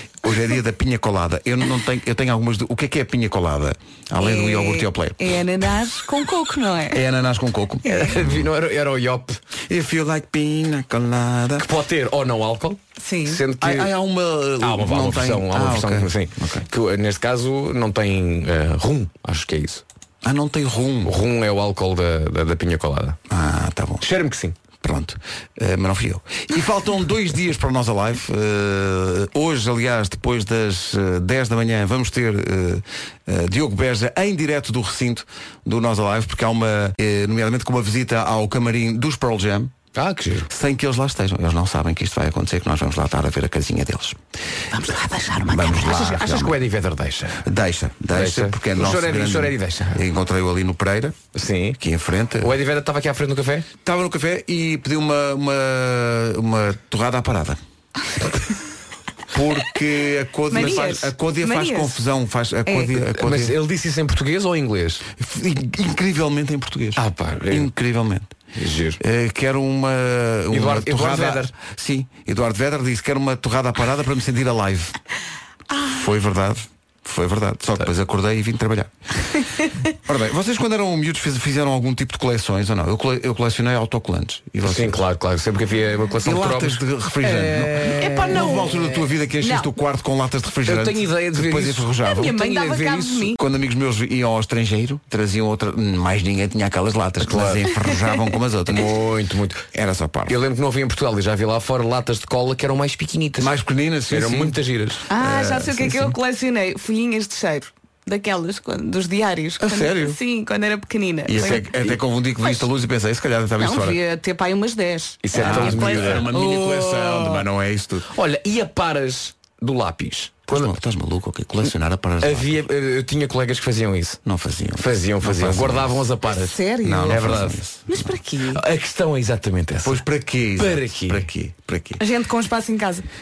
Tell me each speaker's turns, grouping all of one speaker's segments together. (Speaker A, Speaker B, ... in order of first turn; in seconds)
Speaker A: 0.2-5.2, 6.9-8.4, 9.7-11.7, 13.6-16.6, 20.2-21.1, 23.3-24.0, 24.8-39.7, 40.5-44.2, 45.5-46.5, 47.4-51.2, 51.8-52.5, 53.8-57.6, 59.3-63.5, 65.2-68.3, 69.0-74.9, 75.9-78.9, 80.0-85.0, 86.2-98.9, 99.7-100.4, 103.4-104.6, 105.2-106.1, 109.6-110.2, 111.2-114.0, 115.3-118.1, 120.5-122.6, 124.2-126.0, 126.8-128.1, 129.8-132.0
Speaker B: 4.2-7.0, 7.8-8.1, 13.0-13.4, 44.9-45.5, 60.5-62.0, 87.4-88.7, 92.1-93.3, 105.1-111.6, 113.6-116.4, 126.5-128.6, 132.0-133.1
Speaker C: 7.8-9.4, 11.6-13.9, 14.6-19.8, 21.0-23.2, 24.0-24.5, 39.9-40.5, 45.7-47.4, 48.1-50.0, 51.3-51.8, 52.4-53.7, 62.9-65.0, 67.0-67.7, 68.5-69.0, 70.5-71.5, 84.6-86.8, 87.8-88.9, 90.7-93.0, 97.2-97.7, 98.7-99.6, 100.3-103.5, 104.1-105.0, 111.4-112.0, 115.2-116.6, 118.1-120.7, 122.2-124.2, 124.8-126.5, 127.1-127.6, 128.5-130.0, 130.6-131.2